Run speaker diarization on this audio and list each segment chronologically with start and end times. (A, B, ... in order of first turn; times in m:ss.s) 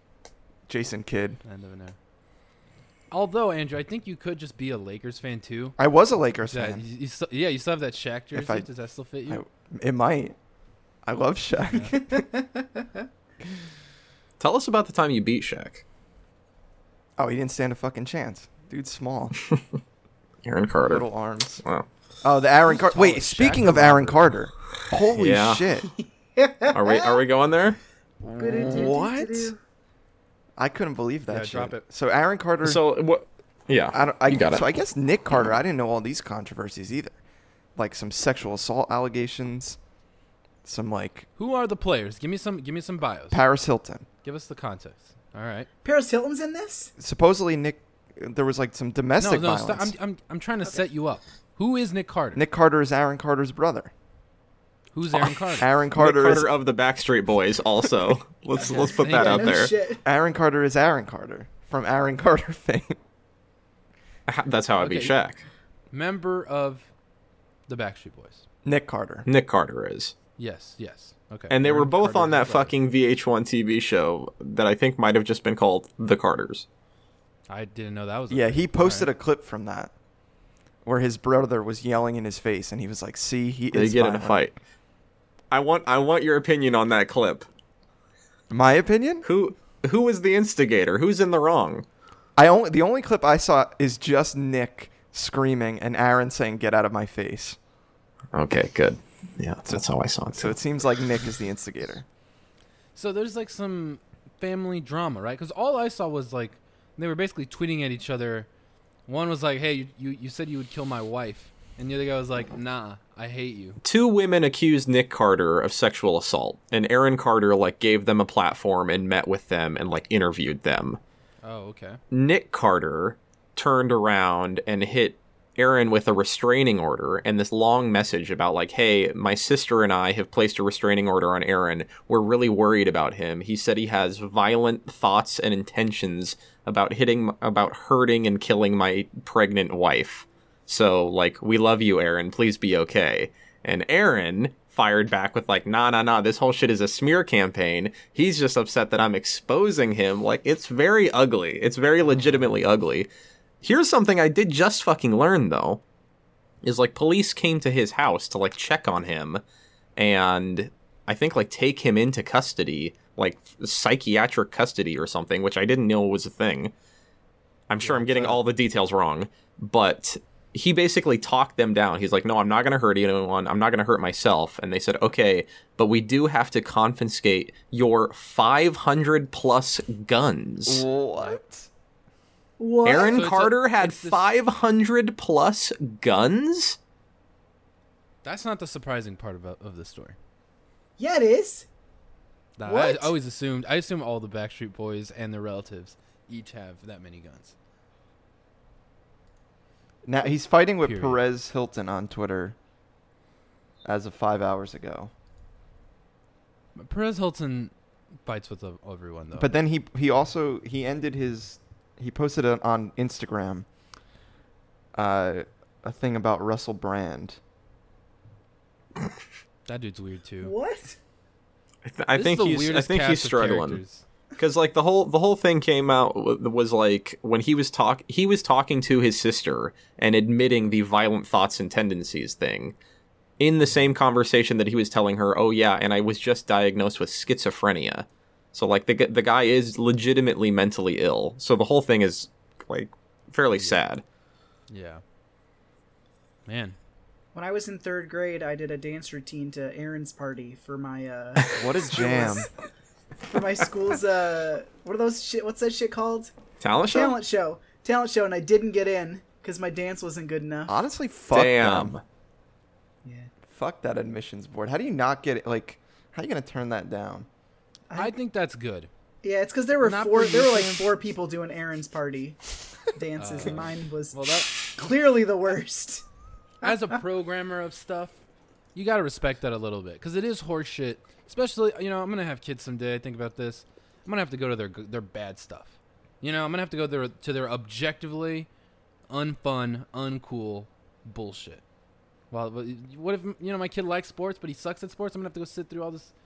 0:00.7-0:01.4 A
0:01.4-0:02.0 B
0:03.1-0:05.8 B
0:05.8-0:06.8 A
0:06.4-0:09.4 B
0:08.3-0:08.7 A
0:09.3-0:10.4 A
0:11.0-0:12.2 A
0:12.0-0:12.8 C
0:14.4-0:15.8 D
0:17.2-0:19.4 A
0:20.4-0:21.0 D
0:20.9-0:21.6 A
0:21.6-0:21.9 D
0:22.2-0:25.9 A
0:22.7-0:24.2 B
0:25.1-0:25.7 D
0:26.4-0:27.2 C
0:26.7-0:27.8 D
0:28.3-0:28.9 B
0:28.4-0:29.6 C
0:28.5-0:29.5 A
0:30.6-0:32.8 A
0:31.3-0:31.8 B
0:32.6-0:34.6 D
0:33.9-0:37.2 A
0:37.8-0:39.8 A
0:40.6-0:41.3 A
0:41.4-0:43.4 B
0:43.3-0:44.1 A
0:44.2-0:45.7 B
0:45.8-0:46.9 C
0:47.0-0:49.9 A
0:49.2-0:52.4 B
0:52.3-0:53.9 A
0:54.9-0:55.7 B
0:55.6-0:56.5 A
0:56.0-0:59.7 D
0:58.6-1:00.0 C
0:58.6-0:59.6 B
1:00.0-1:03.0 A
1:04.3-1:05.4 D
1:04.8-1:05.1 B
1:05.9-1:06.9 B
1:07.7-1:08.4 B
1:08.6-1:09.3 A
1:09.2-1:10.1 D
1:10.4-1:12.7 B
1:11.5-1:16.6 D
1:17.5-1:19.1 B
1:18.3-1:19.9 A
1:20.8-1:24.4 A
1:23.7-1:24.5 D
1:25.5-1:27.4 D
1:28.5-1:29.2 A
1:29.2-1:31.8 D
1:32.4-1:37.6 A
1:38.3-1:40.6 D
1:39.7-1:42.0 A
1:43.0-1:48.5 B
1:49.1-1:53.8 B
1:53.8-2:01.0 D
2:01.4-2:02.0 B
2:02.1-2:33.1 D
2:33.6-2:35.8 D
2:36.6-2:39.4 D
2:40.0-2:46.7 D
2:47.7-3:00.8 D
2:47.8-2:48.4 B
3:00.6-3:01.7 A
3:02.6-3:03.2 C
3:02.8-3:06.8 D
3:03.1-3:04.2 B
3:08.2-3:10.2 B
3:11.0-3:11.6 C
3:12.6-3:17.5 B
3:12.6-3:13.1 C
3:20.0-3:22.6 A
3:20.8-3:21.2 B
3:23.8-3:25.1 A
3:26.8-3:27.7 B
3:28.2-3:29.5 B
3:29.4-3:33.7 A
3:34.9-3:37.4 A
3:39.7-3:40.5 B
3:40.4-3:41.0 C
3:41.8-3:43.8 D
3:42.1-3:44.0 B
3:44.4-3:52.8 D
3:53.4-4:04.0 D
4:03.6-4:03.8 B
4:04.7-4:05.0 B
4:06.4-4:06.8 B
4:07.3-4:12.5 C
4:11.5-4:12.5 A
4:13.2-4:16.3 C
4:16.6-4:17.2 D
4:16.9-4:20.7 C
4:20.7-4:22.0 A
4:21.3-4:22.0 D
4:23.0-4:23.3 C
4:23.4-4:27.3 A
4:27.9-4:28.9 B
4:29.2-4:36.0 C
4:29.8-4:31.0 B
4:33.2-4:34.5 B
4:36.6-4:38.2 B
4:38.7-4:48.5 B
4:49.1-4:51.6 B
4:52.3-4:56.1 B